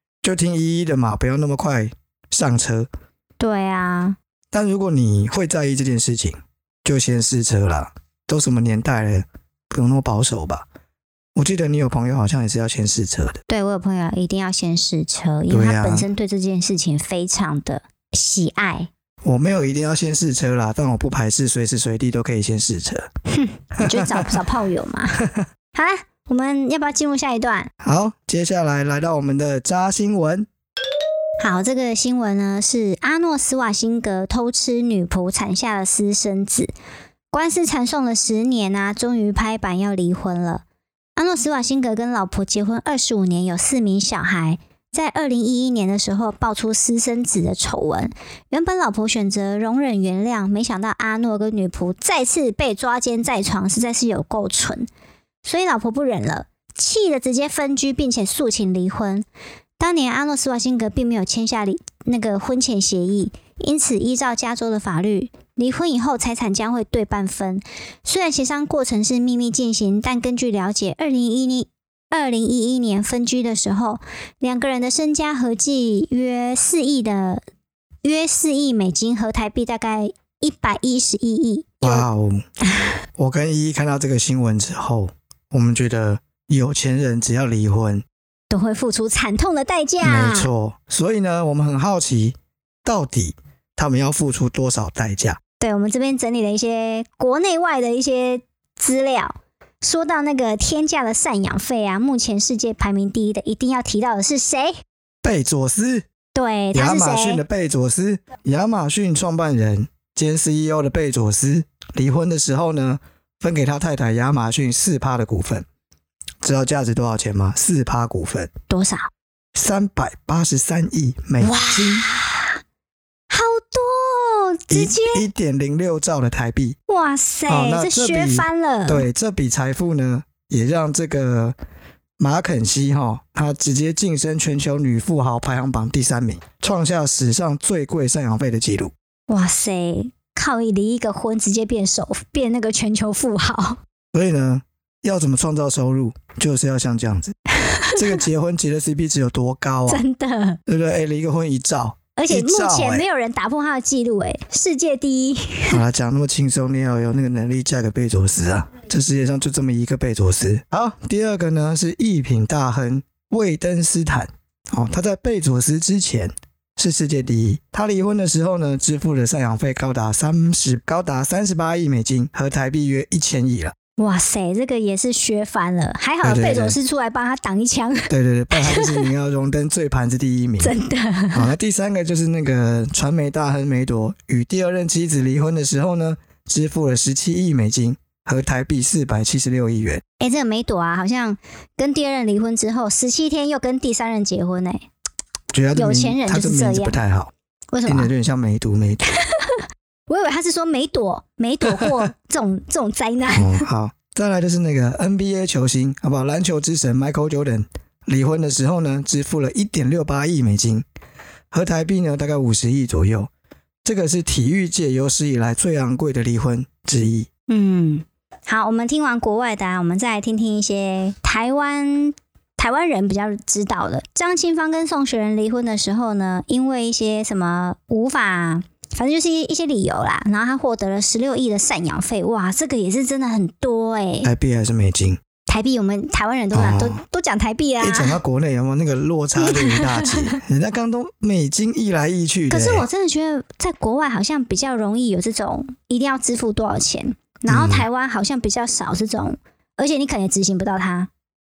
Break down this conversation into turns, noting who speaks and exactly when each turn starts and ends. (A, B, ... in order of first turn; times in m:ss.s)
0:00.2-0:02.9 A
0:03.4-0:04.2 B
0:04.5-0:10.6 A
0:11.3-0:13.4 A
0:13.5-0:18.9 B
0:15.5-0:16.1 A
0:19.2-0:23.1 A
0:23.3-0:27.7 B
0:23.7-0:24.4 A
0:25.2-0:25.4 A
0:27.8-0:30.5 A
0:31.4-0:36.7 B
0:37.3-0:40.6 B
0:41.2-0:54.9 B
0:55.4-0:59.2 B
0:59.8-1:17.4 B
1:18.0-1:22.0 B
1:21.8-1:22.4 A
1:23.2-1:28.0 A
1:28.5-1:30.5 B
1:30.0-1:35.4 A
1:35.6-1:44.8 B
1:45.2-1:46.0 A
1:46.3-1:47.4 B
1:46.7-1:55.6 A
1:56.4-1:58.5 A
1:58.7-1:59.0 B
1:59.5-2:02.1 A
2:01.4-2:02.6 B
2:03.3-2:05.2 B
2:04.7-2:06.8 A
2:06.9-2:09.0 B
2:07.5-2:11.6 A
2:12.2-2:18.9 A
2:19.3-2:23.8 B
2:24.1-2:27.3 A
2:27.6-2:28.2 B
2:27.9-2:30.0 A
2:29.9-2:30.6 B
2:30.7-2:33.0 A
2:32.2-2:35.8 B
2:35.7-2:53.7 A
2:54.0-2:59.1 B
2:56.2-2:56.8 A
2:58.1-3:00.7 A
3:00.6-3:01.5 B
3:01.3-3:10.0 A
3:10.2-3:14.8 B
3:15.5-3:17.3 A
3:15.7-3:17.0 B
3:17.7-3:18.1 B
3:17.8-3:19.0 A
3:19.1-3:23.6 B
3:21.6-3:22.0 A
3:23.3-3:30.8 A
3:31.5-3:33.3 A
3:33.8-3:37.3 A
3:37.5-3:54.3 B
3:54.2-3:55.2 A
3:55.5-3:58.2 B
3:56.5-3:57.0 A
3:57.8-4:02.8 A
3:59.4-4:00.4 B
4:02.5-4:11.1 B
4:07.5-4:07.8 A